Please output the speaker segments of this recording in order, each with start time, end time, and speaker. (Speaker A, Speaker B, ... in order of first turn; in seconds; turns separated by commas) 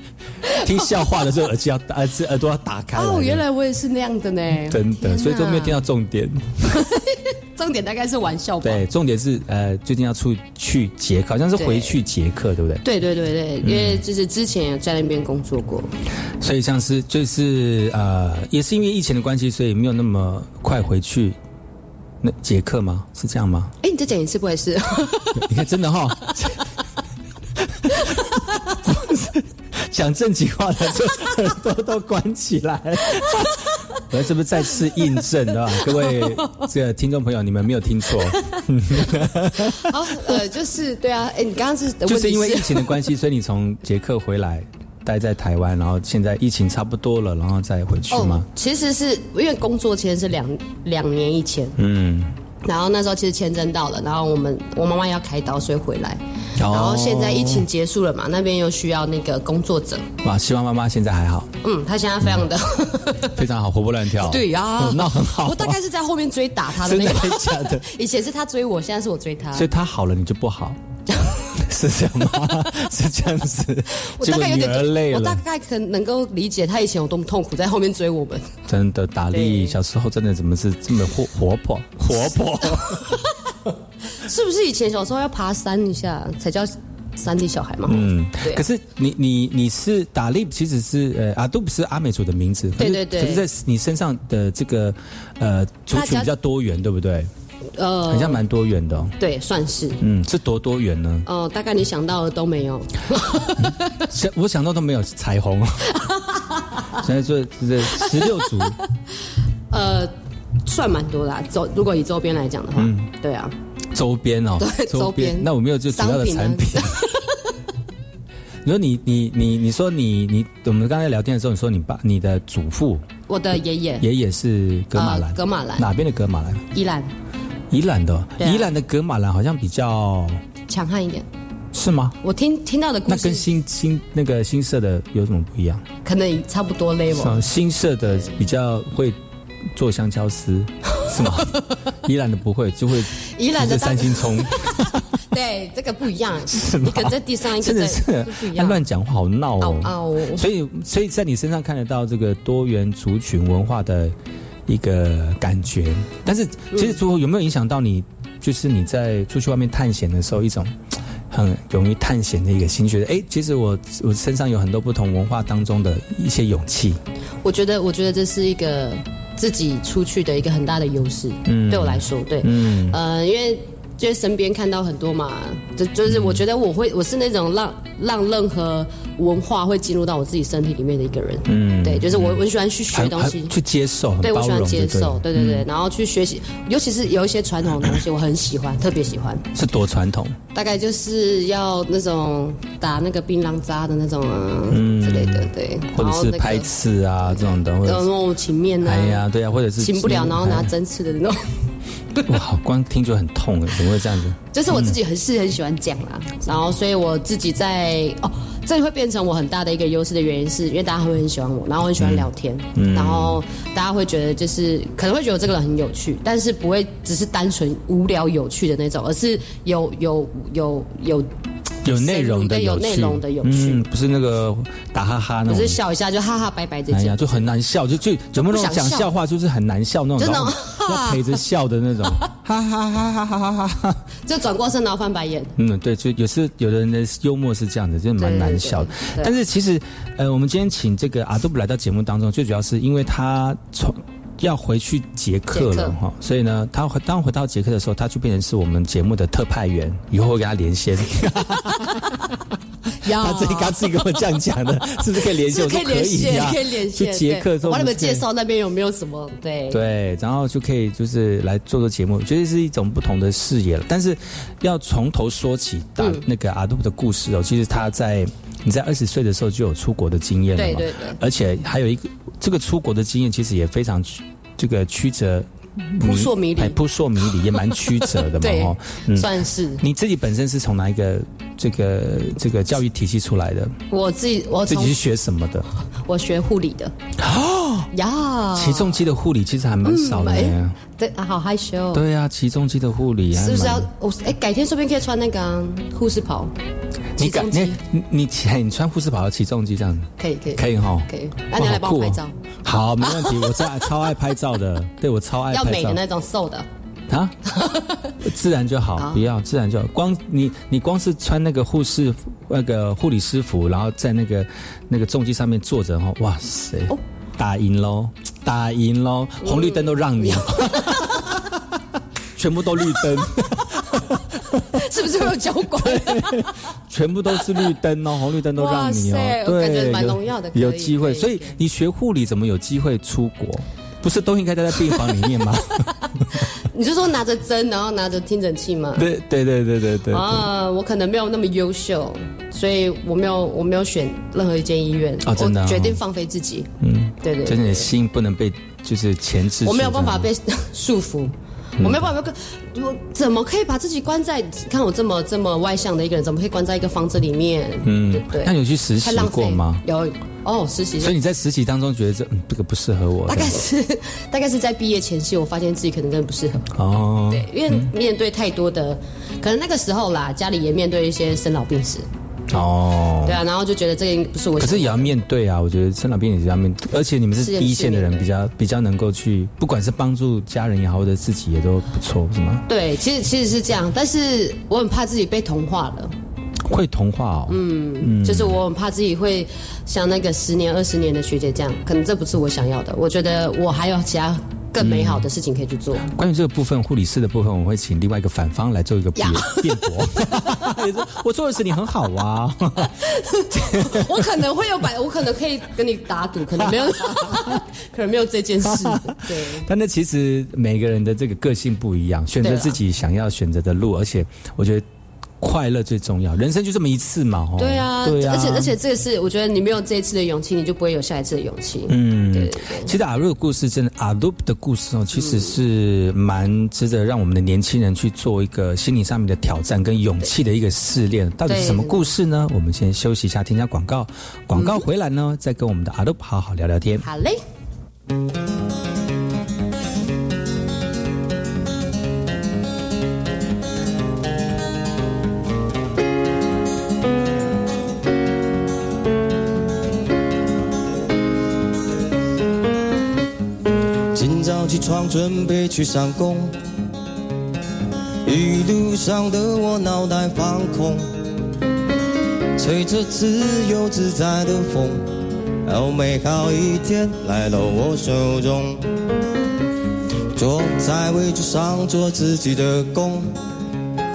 Speaker A: 0.5-3.4, Speaker B: 2.9-5.8, Speaker A: 4.7-7.0, Speaker B: 6.7-8.8, Speaker A: 8.6-12.8, Speaker B: 11.6-12.0, Speaker B: 12.8-15.9, Speaker A: 13.6-14.0, Speaker A: 16.4-21.4, Speaker A: 22.2-23.7, Speaker B: 23.8-25.4, Speaker A: 25.3-26.6, Speaker A: 27.7-40.3, Speaker B: 35.8-36.6, Speaker B: 38.2-38.6, Speaker B: 39.6-43.0, Speaker A: 42.0-48.5, Speaker B: 48.1-51.8, Speaker A: 51.8-52.3, Speaker B: 52.6-60.1, Speaker A: 56.6-57.6, Speaker A: 60.2-61.5, Speaker B: 61.6-63.4, Speaker A: 63.3-65.8, Speaker B: 64.2-69.7, Speaker A: 66.8-67.8, Speaker A: 69.5-70.8, Speaker A: 71.5-75.4, Speaker B: 73.9-78.5, Speaker A: 78.7-83.2, Speaker B: 79.3-79.7, Speaker B: 82.2-83.3, Speaker B: 84.1-88.6, Speaker A: 87.8-97.3, Speaker B: 92.8-93.5, Speaker B: 95.9-96.3, Speaker B: 97.8-98.4, Speaker A: 98.1-99.2, Speaker B: 99.2-100.0, Speaker A: 100.0-101.2, Speaker B: 101.2-104.0, Speaker A: 103.6-105.9, Speaker B: 105.9-107.0, Speaker A: 107.0-108.8, Speaker B: 108.0-108.7, Speaker B: 109.7-110.1, Speaker B: 110.6-113.5, Speaker A: 112.7-113.1, Speaker A: 113.9-117.1, Speaker B: 114.6-117.5, Speaker A: 118.6-123.0, Speaker B: 123.3-124.1, Speaker A: 124.0-126.7, Speaker B: 124.9-125.9, Speaker B: 126.7-127.1, Speaker A: 127.7-130.4, Speaker B: 128.4-128.7, Speaker B: 130.7-131.3, Speaker A: 131.7-132.2, Speaker B: 132.2-133.4, Speaker A: 133.1-135.8, Speaker B: 136.0-137.4, Speaker A: 137.1-139.2, Speaker B: 138.1-138.4, Speaker A: 139.7-145.2, Speaker B: 140.9-141.7, Speaker B: 143.2-148.8, Speaker A: 146.5-154.1, Speaker B: 149.6-150.4, Speaker A: 154.7-160.8, Speaker B: 156.7-157.0, Speaker A: 161.3-167.0, Speaker B: 167.4-183.6, Speaker A: 171.4-173.0, Speaker A: 176.1-176.4, Speaker A: 181.5-182.4, Speaker A: 182.9-185.7, Speaker B: 184.2-189.4, Speaker A: 189.5-190.4, Speaker B: 190.5-196.7, Speaker A: 194.7-198.1, Speaker B: 197.2-199.2, Speaker A: 198.8-200.7, Speaker B: 199.8-202.4, Speaker A: 202.3-204.9, Speaker B: 204.5-221.3, Speaker A: 211.9-213.4, Speaker A: 221.8-225.8, Speaker B: 221.9-223.8, Speaker B: 225.5-227.4, Speaker A: 226.9-234.0, Speaker B: 228.3-229.1, Speaker B: 230.2-231.4, Speaker B: 234.2-235.5, Speaker A: 235.6-252.2, Speaker B: 238.2-239.3, Speaker B: 245.5-245.9, Speaker B: 251.7-252.0, Speaker A: 253.0-258.2, Speaker B: 253.0-254.2, Speaker B: 255.1-259.8, Speaker A: 259.7-283.8, Speaker B: 266.0-266.2, Speaker B: 270.6-271.2, Speaker B: 276.0-276.8, Speaker B: 277.5-279.8, Speaker B: 283.9-285.0, Speaker A: 284.6-285.7, Speaker B: 286.0-286.9, Speaker A: 287.2-287.9, Speaker B: 287.9-289.0, Speaker A: 288.5-290.8, Speaker B: 289.8-292.0, Speaker A: 291.9-293.9, Speaker B: 293.3-296.5, Speaker A: 297.2-306.0, Speaker B: 297.2-297.8, Speaker B: 300.2-302.4, Speaker B: 303.0-303.9, Speaker B: 305.5-306.6, Speaker A: 307.1-307.4, Speaker B: 307.5-308.1, Speaker A: 308.2-321.5, Speaker B: 309.0-309.2, Speaker B: 319.4-321.3, Speaker A: 322.3-336.4, Speaker B: 324.7-326.6, Speaker B: 328.5-331.6, Speaker B: 334.9-335.3, Speaker B: 335.8-339.1, Speaker A: 338.9-340.5, Speaker B: 340.1-346.7, Speaker A: 345.2-346.0, Speaker A: 346.8-350.3, Speaker B: 347.2-347.9, Speaker B: 349.6-361.1, Speaker A: 351.8-352.1, Speaker A: 357.8-359.8, Speaker A: 361.0-363.6, Speaker B: 363.2-366.7, Speaker A: 366.7-367.9, Speaker B: 367.3-372.1, Speaker A: 372.5-373.4, Speaker B: 373.2-375.1, Speaker A: 374.6-382.6, Speaker B: 377.4-378.3, Speaker B: 382.7-386.1, Speaker A: 386.6-388.6, Speaker B: 387.5-396.1, Speaker A: 394.8-395.2, Speaker A: 396.0-403.0, Speaker B: 399.2-400.6, Speaker B: 402.8-409.6, Speaker A: 403.5-404.2, Speaker A: 406.6-407.6, Speaker A: 408.6-414.8, Speaker B: 412.4-412.8, Speaker A: 415.4-418.7, Speaker B: 417.6-422.9, Speaker A: 421.9-437.1, Speaker B: 425.1-425.5, Speaker B: 431.4-432.1, Speaker B: 434.5-434.8, Speaker B: 437.0-437.4, Speaker C: 454.1-456.6, Speaker C: 458.2-461.0, Speaker C: 462.6-465.0, Speaker C: 465.6-468.8, Speaker C: 470.3-473.3